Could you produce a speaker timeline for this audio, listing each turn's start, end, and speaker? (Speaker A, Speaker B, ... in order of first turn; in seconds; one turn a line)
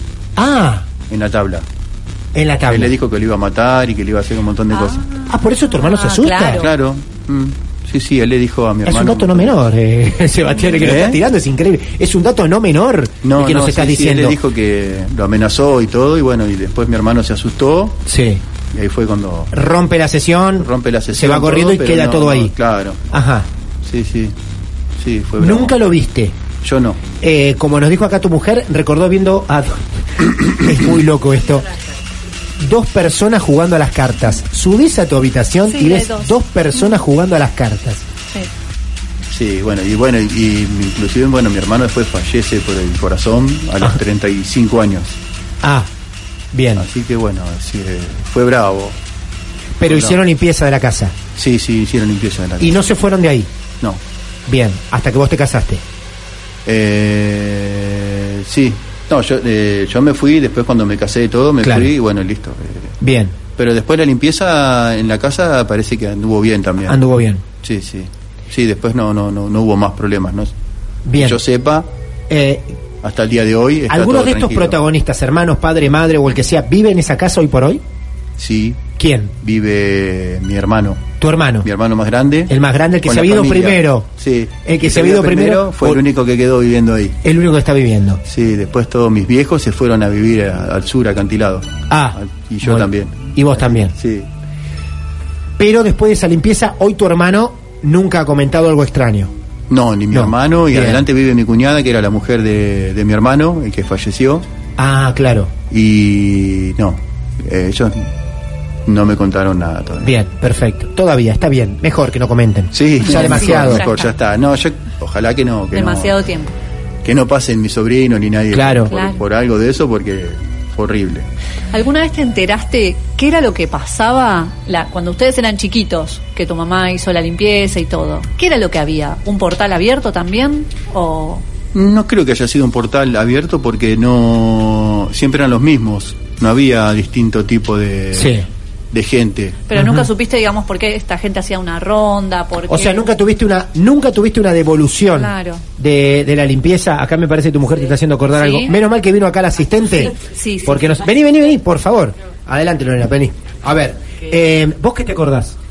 Speaker A: 0.3-0.9
Speaker B: 1.1-1.6
Speaker A: 2.3-3.0
Speaker B: 2.7-5.0
Speaker C: 4.7-6.7
Speaker A: 5.3-6.6
Speaker B: 6.4-9.5
Speaker A: 8.8-14.4
Speaker B: 10.8-11.2
Speaker B: 13.2-18.0
Speaker A: 18.1-18.4
Speaker B: 18.7-19.5
Speaker A: 19.5-22.5
Speaker B: 20.6-23.0
Speaker A: 23.1-23.5
Speaker B: 23.8-24.3
Speaker B: 25.0-25.8
Speaker A: 25.4-26.4
Speaker B: 26.6-27.0
Speaker A: 27.2-31.7
Speaker A: 32.6-38.0
Speaker C: 35.6-37.0
Speaker B: 39.3-45.2
Speaker A: 45.6-45.9
Speaker A: 46.5-46.9
Speaker B: 46.8-49.0
Speaker A: 49.8-51.1
Speaker B: 49.8-50.2
Speaker B: 51.3-52.8
Speaker A: 52.6-53.5
Speaker A: 54.5-55.8
Speaker B: 56.6-63.0
Speaker A: 61.6-61.9
Speaker A: 63.0-63.4
Speaker B: 63.5-67.0
Speaker A: 66.9-67.4
Speaker B: 67.6-70.5
Speaker A: 71.0-71.4
Speaker B: 71.1-71.9
Speaker A: 72.3-72.8
Speaker B: 73.0-74.8
Speaker A: 73.9-77.8
Speaker B: 78.4-78.9
Speaker A: 79.0-79.3
Speaker B: 79.4-82.5
Speaker A: 81.2-81.7
Speaker A: 82.5-84.1
Speaker B: 83.0-87.2
Speaker A: 84.6-86.0
Speaker A: 87.2-88.2
Speaker B: 88.2-94.3
Speaker A: 91.9-93.9
Speaker A: 95.6-99.3
Speaker B: 99.7-104.5
Speaker A: 100.1-101.0
Speaker A: 104.8-105.5
Speaker B: 105.7-108.1
Speaker B: 108.8-110.1
Speaker A: 110.0-113.8
Speaker B: 112.7-116.2
Speaker C: 113.1-114.1
Speaker C: 115.7-116.5
Speaker B: 117.0-121.3
Speaker A: 118.5-118.9
Speaker C: 118.9-119.2
Speaker C: 121.7-131.4
Speaker B: 131.7-139.6
Speaker A: 138.1-138.5
Speaker C: 139.7-143.0
Speaker A: 139.8-140.1
Speaker A: 142.7-155.6
Speaker C: 145.1-145.6
Speaker C: 148.3-148.7
Speaker C: 150.2-150.9